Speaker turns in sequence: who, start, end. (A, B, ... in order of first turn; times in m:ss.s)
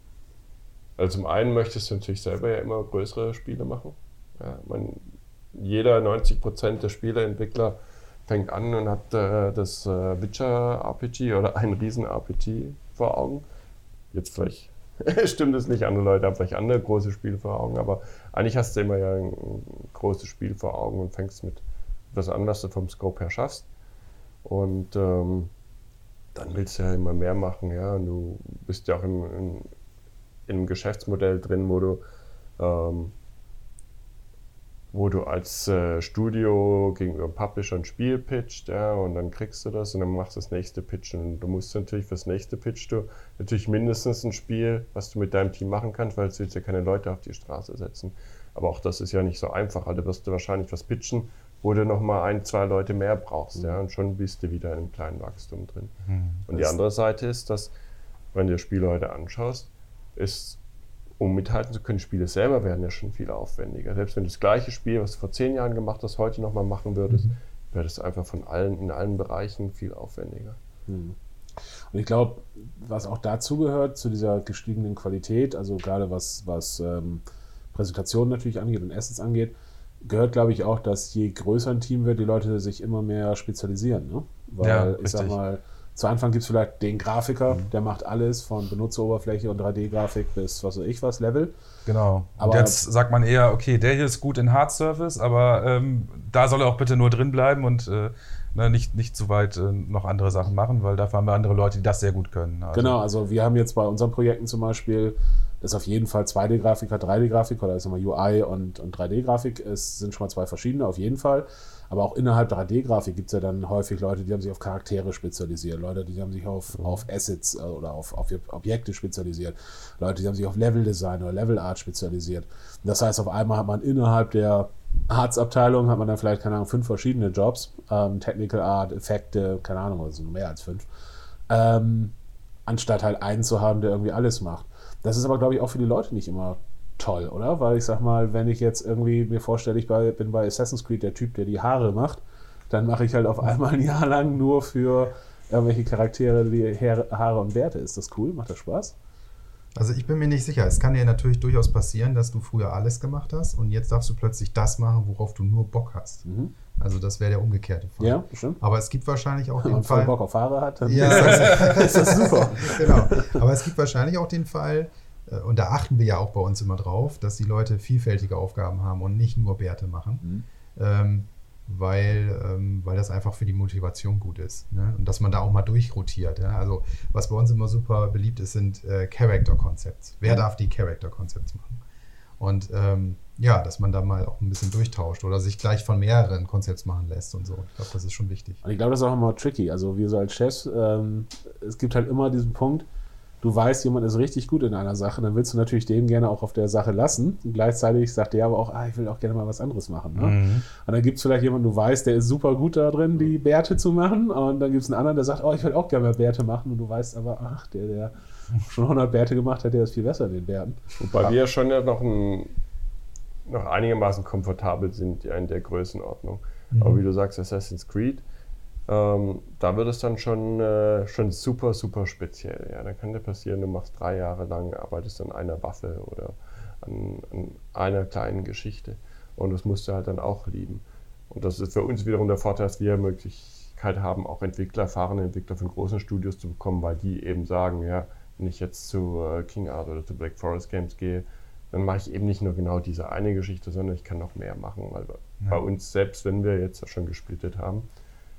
0:01.0-0:13.5 A
0:14.1-0:23.7 A
0:24.4-0:25.5 A
0:26.3-0:29.7 A
0:30.5-0:32.0 A
0:32.6-0:33.1 A
0:34.9-0:57.7 A
0:56.1-0:56.4 B
0:58.3-1:00.6 A
1:01.2-1:10.6 A
1:10.9-1:11.2 C
1:11.9-1:31.5 C
1:24.6-1:25.4 B
1:31.8-1:43.0 B
1:32.4-1:32.8 C
1:42.7-2:10.8 C
2:11.5-2:12.1 C
2:12.7-2:28.9 C
2:29.7-2:36.2 D
2:36.2-2:36.5 C
2:36.8-2:40.2 D
2:38.0-2:38.6 C
2:39.6-2:43.4 C
2:40.8-2:50.2 D
2:41.1-2:41.7 B
2:50.7-3:01.8 D
3:02.4-3:08.6 D
3:08.6-3:12.9 C
3:13.4-3:30.8 C
3:20.2-3:20.6 B
3:31.0-3:32.6 A
3:33.4-3:38.2 A
3:36.7-3:37.0 D
3:38.9-4:07.9 A